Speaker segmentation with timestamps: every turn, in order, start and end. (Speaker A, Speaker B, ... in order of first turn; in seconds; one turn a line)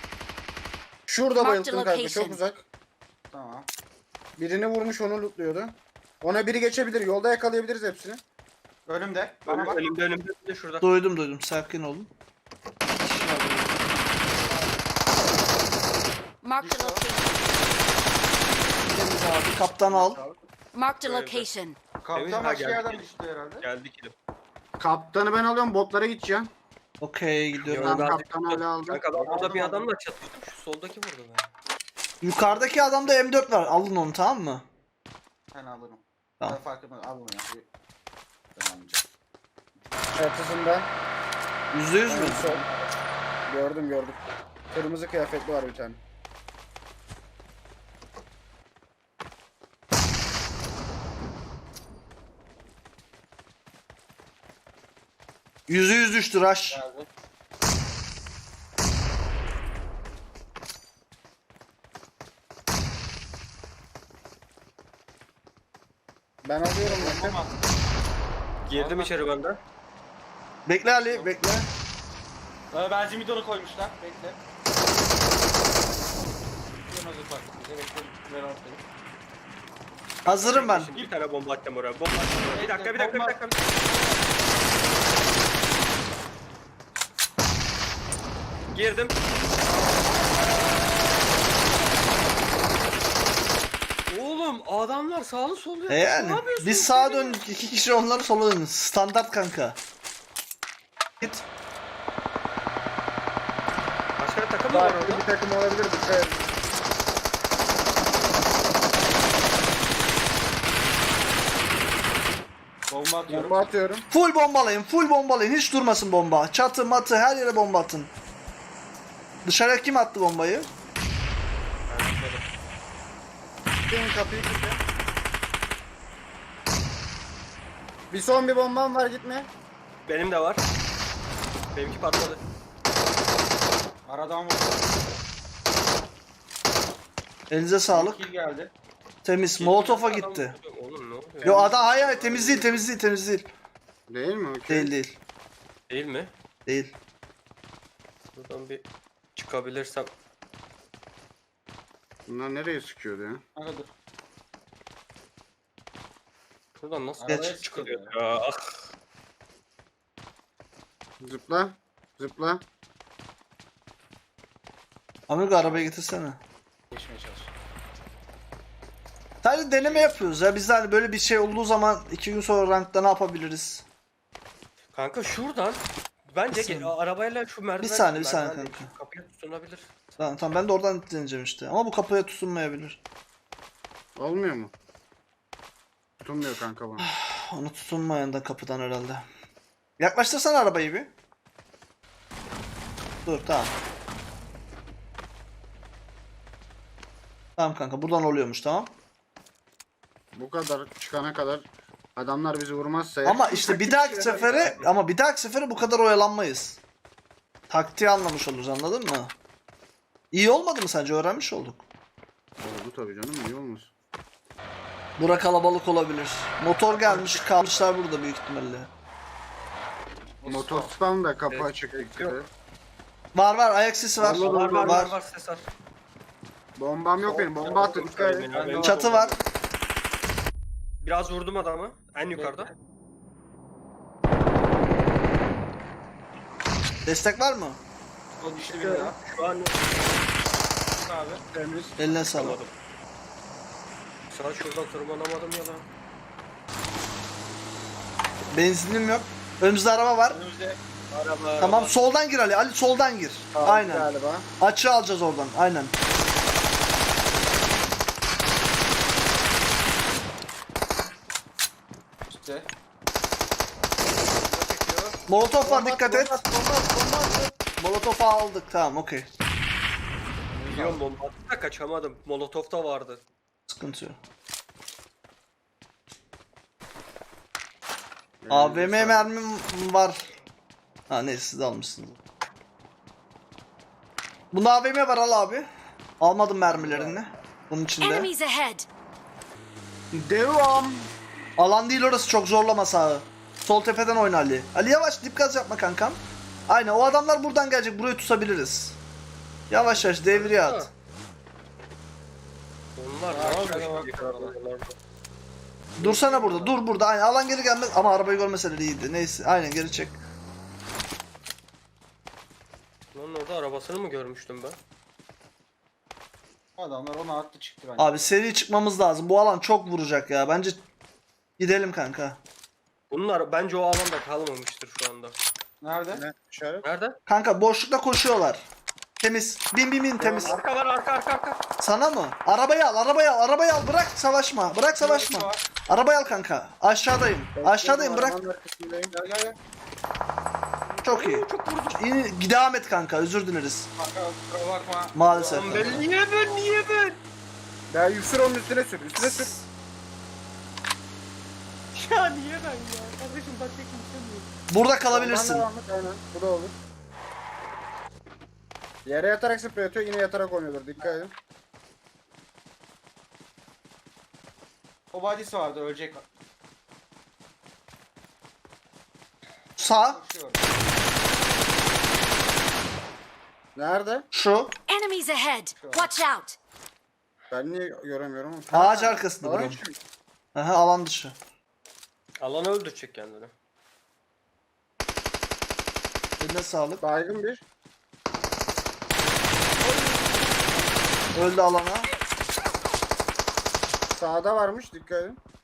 Speaker A: 1.1-2.6
Speaker B: 1.4-2.4
Speaker C: 3.3-3.7
Speaker A: 4.4-8.2
Speaker C: 8.9-9.8
Speaker D: 9.5-10.9
Speaker E: 10.8-12.1
Speaker E: 13.0-13.8
Speaker B: 16.4-17.5
Speaker C: 16.6-17.0
Speaker E: 18.9-20.2
Speaker C: 19.8-20.4
Speaker B: 20.7-21.8
Speaker D: 21.0-21.5
Speaker C: 22.0-23.7
Speaker D: 22.1-23.1
Speaker D: 23.6-24.1
Speaker A: 24.8-26.5
Speaker E: 27.0-28.1
Speaker D: 27.6-31.5
Speaker A: 27.8-29.0
Speaker C: 29.2-29.9
Speaker E: 32.2-34.6
Speaker C: 32.3-33.2
Speaker C: 35.5-37.7
Speaker C: 38.5-39.0
Speaker A: 40.1-40.9
Speaker E: 41.7-42.6
Speaker A: 42.1-42.6
Speaker A: 43.5-44.2
Speaker A: 44.7-46.0
Speaker E: 55.7-56.8
Speaker C: 56.7-57.1
Speaker A: 66.4-67.4
Speaker C: 66.8-67.6
Speaker D: 68.7-69.6
Speaker C: 68.7-69.2
Speaker E: 70.7-71.7
Speaker C: 71.1-71.3
Speaker C: 72.7-74.4
Speaker C: 76.9-78.8
Speaker E: 80.3-80.9
Speaker D: 80.3-83.7
Speaker C: 82.5-84.4
Speaker D: 88.7-89.2
Speaker C: 89.7-90.1
Speaker D: 94.1-97.4
Speaker E: 95.9-99.8
Speaker D: 104.2-105.2
Speaker A: 104.7-106.4
Speaker C: 112.9-113.7
Speaker A: 113.3-114.1
Speaker E: 114.1-118.1
Speaker E: 119.5-120.7
Speaker D: 121.9-122.5
Speaker A: 123.9-124.8
Speaker A: 128.1-129.5
Speaker D: 130.1-130.6
Speaker D: 131.7-132.4
Speaker C: 134.1-135.0
Speaker E: 137.5-138.2
Speaker C: 137.9-138.7
Speaker E: 139.2-140.5
Speaker D: 139.6-141.7
Speaker C: 141.4-142.8
Speaker E: 141.4-143.5
Speaker A: 144.1-144.9
Speaker E: 144.7-145.2
Speaker D: 145.9-146.3
Speaker E: 146.7-146.9
Speaker D: 148.4-148.8
Speaker D: 149.3-150.1
Speaker A: 152.3-153.4
Speaker C: 153.6-153.9
Speaker D: 156.8-158.8
Speaker C: 157.2-158.1
Speaker A: 161.2-162.6
Speaker E: 165.3-166.4
Speaker C: 165.6-165.9
Speaker C: 166.9-167.5
Speaker E: 169.4-173.8
Speaker C: 169.8-170.2
Speaker D: 174.9-180.0
Speaker E: 176.5-176.9
Speaker E: 177.8-178.9
Speaker E: 180.2-183.0
Speaker A: 184.2-184.7
Speaker A: 186.2-187.1
Speaker E: 187.0-189.2
Speaker E: 190.0-191.1
Speaker E: 193.2-193.7
Speaker E: 197.6-198.9
Speaker A: 200.3-204.8
Speaker E: 203.2-206.8
Speaker C: 204.3-204.8
Speaker E: 207.7-209.3
Speaker E: 210.3-211.8
Speaker A: 212.6-213.9
Speaker E: 215.2-218.9
Speaker C: 220.4-220.9
Speaker A: 220.5-222.5
Speaker D: 221.5-222.3
Speaker E: 223.3-225.2
Speaker A: 224.2-225.1
Speaker D: 224.2-225.7
Speaker A: 226.8-228.5
Speaker C: 227.2-229.4
Speaker D: 227.6-229.2
Speaker E: 228.8-229.3
Speaker D: 231.0-232.7
Speaker C: 232.3-232.7
Speaker E: 237.1-237.8
Speaker C: 238.4-239.2
Speaker A: 238.7-239.1
Speaker D: 239.2-239.8
Speaker C: 240.9-241.4
Speaker A: 241.5-242.2
Speaker E: 242.0-242.6
Speaker D: 242.2-242.7
Speaker D: 244.3-245.9
Speaker E: 248.5-250.4
Speaker C: 250.3-250.8
Speaker D: 251.1-251.9
Speaker E: 251.6-255.9
Speaker A: 253.5-254.5
Speaker C: 262.3-262.7
Speaker D: 264.5-265.2
Speaker E: 265.3-266.4
Speaker A: 265.6-267.6
Speaker E: 267.8-269.3
Speaker C: 270.6-271.0
Speaker D: 270.7-273.2
Speaker E: 273.7-274.2
Speaker A: 278.4-279.3
Speaker E: 278.5-280.2
Speaker E: 281.1-282.2
Speaker E: 284.5-285.7
Speaker E: 286.2-288.3
Speaker A: 286.8-287.1
Speaker B: 288.0-288.9
Speaker A: 290.1-291.1
Speaker E: 291.6-299.0
Speaker E: 299.7-300.9
Speaker D: 300.1-300.9
Speaker D: 303.0-304.9
Speaker C: 303.3-304.6
Speaker E: 306.0-310.2
Speaker C: 306.0-306.8
Speaker D: 313.1-314.8
Speaker C: 316.8-318.4
Speaker E: 318.0-320.8
Speaker E: 321.6-322.4
Speaker D: 323.1-325.4
Speaker C: 325.8-326.2
Speaker A: 326.1-326.9
Speaker D: 326.8-327.2
Speaker E: 327.3-328.6
Speaker E: 329.2-330.6
Speaker A: 330.2-330.6
Speaker D: 330.4-331.6
Speaker E: 331.8-338.4
Speaker C: 334.9-335.6
Speaker A: 337.6-339.1
Speaker C: 339.1-339.6
Speaker D: 340.9-342.0
Speaker E: 341.0-343.9
Speaker C: 344.0-346.0
Speaker E: 345.1-346.1
Speaker D: 345.5-347.2
Speaker A: 347.9-349.6
Speaker E: 349.2-349.7
Speaker D: 351.9-354.5
Speaker E: 354.7-355.7
Speaker A: 355.1-356.8
Speaker A: 359.1-361.3
Speaker C: 365.1-366.2
Speaker E: 369.8-370.2
Speaker C: 370.1-370.7
Speaker A: 373.8-374.3
Speaker E: 374.3-374.8
Speaker B: 374.9-376.6
Speaker C: 375.8-376.1
Speaker A: 377.5-379.9
Speaker E: 378.7-379.8
Speaker E: 380.6-381.4
Speaker D: 382.4-383.5
Speaker E: 386.4-387.0
Speaker A: 387.0-387.6
Speaker C: 389.8-391.0
Speaker E: 391.4-392.1
Speaker A: 394.1-395.4